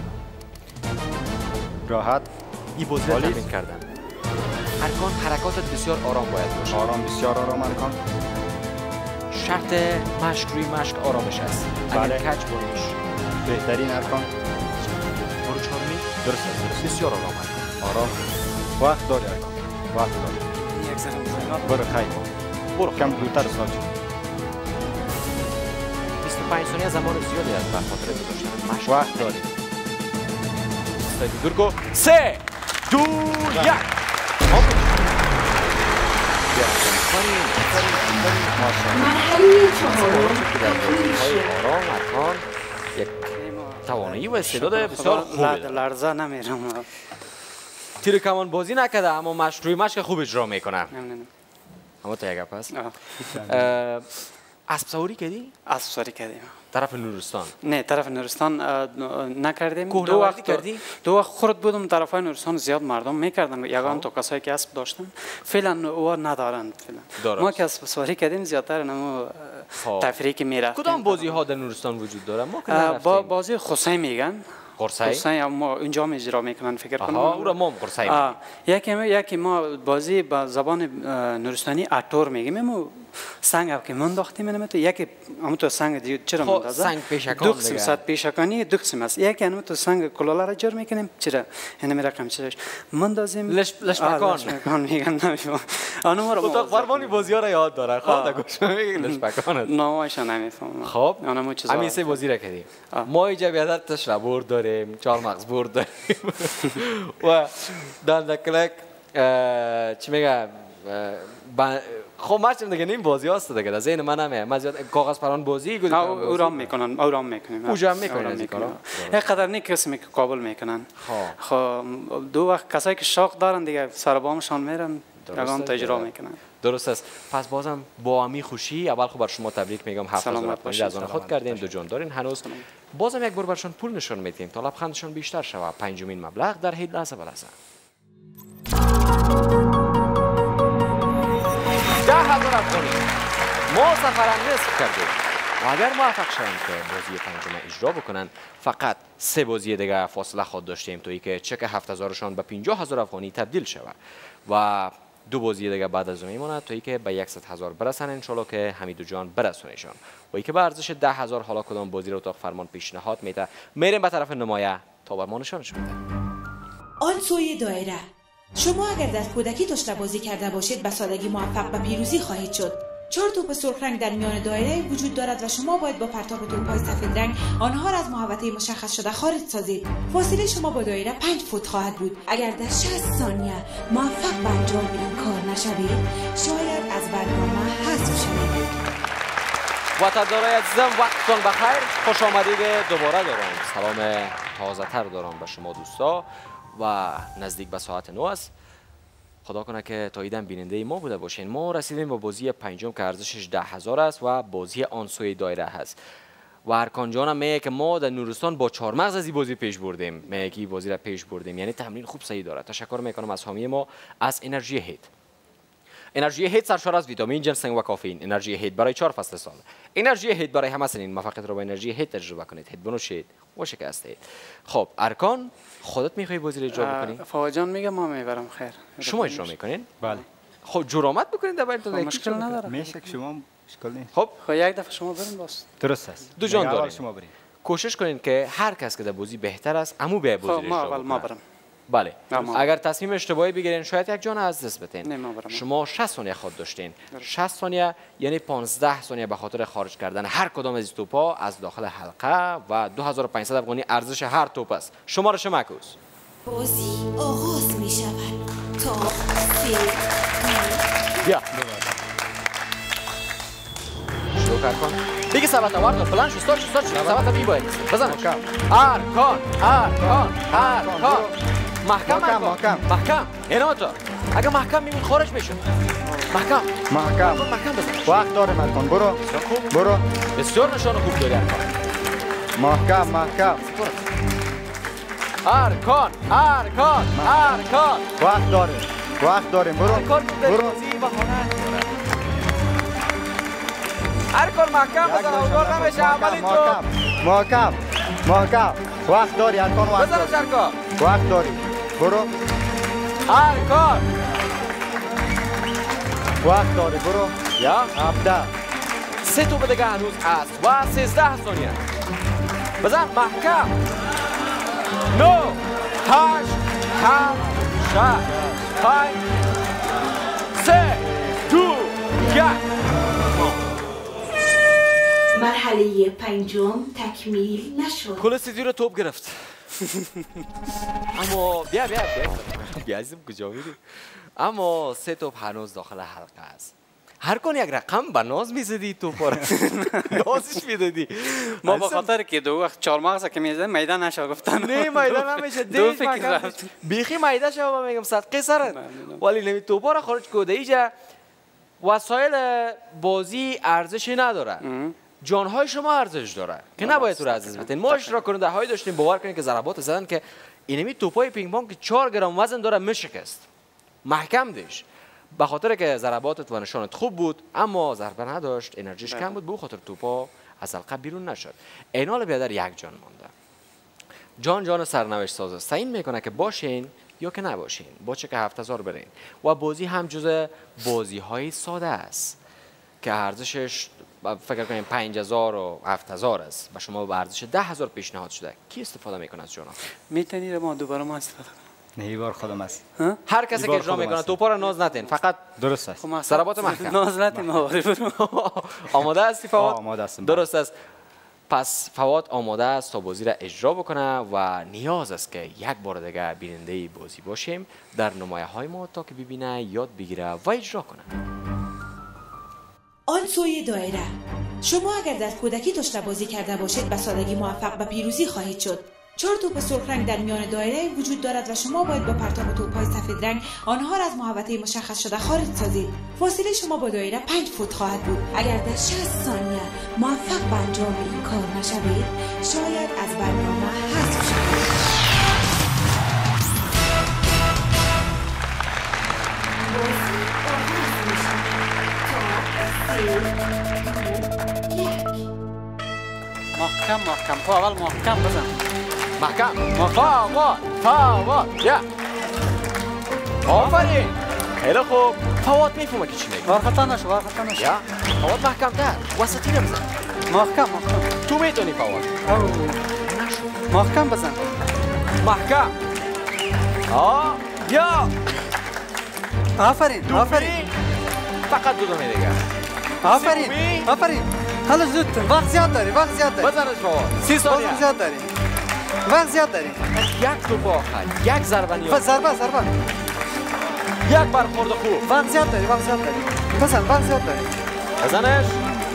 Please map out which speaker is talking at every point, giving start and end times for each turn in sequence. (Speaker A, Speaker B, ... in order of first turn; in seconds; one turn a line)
Speaker A: 1.9-2.3
Speaker B: 2.8-3.9
Speaker A: 3.1-3.4
Speaker B: 4.8-6.8
Speaker A: 6.7-8.0
Speaker B: 9.3-13.0
Speaker A: 11.9-12.3
Speaker A: 13.4-14.3
Speaker B: 15.4-18.1
Speaker A: 18.8-20.4
Speaker C: 20.7-21.9
Speaker A: 21.6-22.3
Speaker B: 22.8-23.6
Speaker A: 22.9-23.9
Speaker B: 26.2-29.4
Speaker A: 28.9-29.5
Speaker B: 31.0-33.9
Speaker A: 33.5-33.8
Speaker B: 34.4-35.2
Speaker B: 36.5-39.0
Speaker A: 38.5-39.1
Speaker D: 38.9-41.5
Speaker B: 39.8-42.4
Speaker B: 43.0-43.3
Speaker C: 43.4-46.9
Speaker B: 43.8-45.8
Speaker B: 48.0-50.9
Speaker C: 50.9-51.3
Speaker B: 52.0-52.7
Speaker C: 52.7-53.4
Speaker A: 53.3-53.8
Speaker B: 53.5-54.1
Speaker B: 54.7-55.5
Speaker C: 55.7-56.6
Speaker B: 56.7-57.5
Speaker C: 57.6-71.4
Speaker B: 59.9-60.8
Speaker B: 63.8-64.1
Speaker B: 67.2-67.6
Speaker B: 69.8-70.1
Speaker B: 70.7-73.3
Speaker C: 72.7-74.5
Speaker B: 74.8-75.2
Speaker C: 75.0-97.3
Speaker B: 77.0-78.3
Speaker B: 86.4-88.0
Speaker B: 93.5-94.6
Speaker B: 96.4-99.7
Speaker C: 98.0-102.2
Speaker B: 100.8-116.7
Speaker C: 115.9-126.4
Speaker B: 117.7-119.4
Speaker B: 121.0-121.4
Speaker B: 125.3-126.1
Speaker B: 126.6-137.5
Speaker C: 130.2-131.3
Speaker B: 142.0-143.1
Speaker B: 143.7-153.9
Speaker B: 154.5-166.0
Speaker D: 167.0-188.7
Speaker B: 190.0-198.5
Speaker B: 199.4-205.9
Speaker B: 206.7-215.1
Speaker B: 216.2-227.2
Speaker C: 226.7-230.2
Speaker B: 229.0-230.0
Speaker B: 230.7-232.6
Speaker C: 231.9-233.0
Speaker A: 232.7-234.1
Speaker C: 234.4-235.7
Speaker A: 235.8-237.3
Speaker B: 236.4-237.0
Speaker B: 237.6-241.3
Speaker C: 240.4-241.4
Speaker B: 241.9-256.0
Speaker C: 242.3-242.7
Speaker C: 245.1-245.6
Speaker D: 256.4-260.8
Speaker A: 261.5-261.9
Speaker B: 264.3-271.3
Speaker A: 266.9-267.3
Speaker A: 267.9-268.4
Speaker A: 270.0-271.3
Speaker B: 271.8-275.6
Speaker A: 272.1-272.9
Speaker B: 276.3-278.3
Speaker A: 276.9-277.4
Speaker A: 278.1-280.1
Speaker B: 279.3-279.7
Speaker B: 280.4-281.7
Speaker A: 282.6-283.6
Speaker B: 282.8-284.1
Speaker B: 285.4-288.1
Speaker A: 287.1-287.6
Speaker A: 288.2-290.8
Speaker B: 289.8-291.9
Speaker B: 294.3-296.8
Speaker A: 295.0-300.4
Speaker B: 300.0-300.8
Speaker A: 301.0-302.3
Speaker B: 303.3-304.1
Speaker A: 306.4-307.4
Speaker B: 307.6-307.9
Speaker A: 307.9-308.5
Speaker B: 309.2-311.8
Speaker B: 312.8-313.8
Speaker B: 315.1-319.4
Speaker A: 318.2-318.8
Speaker B: 320.5-322.6
Speaker B: 323.3-323.7
Speaker D: 325.3-328.2
Speaker B: 328.2-329.6
Speaker B: 331.1-342.1
Speaker C: 339.5-340.2
Speaker C: 341.6-346.7
Speaker B: 344.5-350.9
Speaker C: 348.7-349.2
Speaker B: 351.8-354.6
Speaker C: 354.6-355.0
Speaker B: 355.2-363.4
Speaker C: 356.8-358.2
Speaker B: 364.1-373.3
Speaker B: 374.4-382.4
Speaker B: 383.0-389.8
Speaker C: 390.1-391.6
Speaker A: 392.0-392.8
Speaker B: 393.3-395.5
Speaker A: 393.5-394.4
Speaker A: 395.6-396.0
Speaker C: 396.0-398.2
Speaker B: 396.2-397.0
Speaker B: 398.1-400.7
Speaker A: 399.6-400.5
Speaker B: 401.5-411.1
Speaker D: 413.1-434.9
Speaker D: 439.4-445.3
Speaker C: 446.6-448.6
Speaker B: 449.2-451.9
Speaker C: 449.8-450.1
Speaker B: 453.4-456.6
Speaker C: 453.5-453.8
Speaker C: 456.4-457.7
Speaker B: 457.6-459.9
Speaker C: 460.3-461.1
Speaker B: 461.2-462.2
Speaker C: 462.2-462.8
Speaker B: 463.0-463.7
Speaker C: 463.7-464.5
Speaker B: 465.2-465.7
Speaker B: 466.9-468.1
Speaker C: 469.6-470.7
Speaker B: 470.1-470.7
Speaker B: 471.5-472.4
Speaker C: 473.0-476.5
Speaker B: 473.1-473.9
Speaker B: 476.4-477.9
Speaker C: 477.3-478.3
Speaker C: 479.1-479.9
Speaker B: 479.9-482.2
Speaker C: 481.9-482.7
Speaker B: 484.1-485.1
Speaker C: 485.0-487.5
Speaker B: 488.0-488.6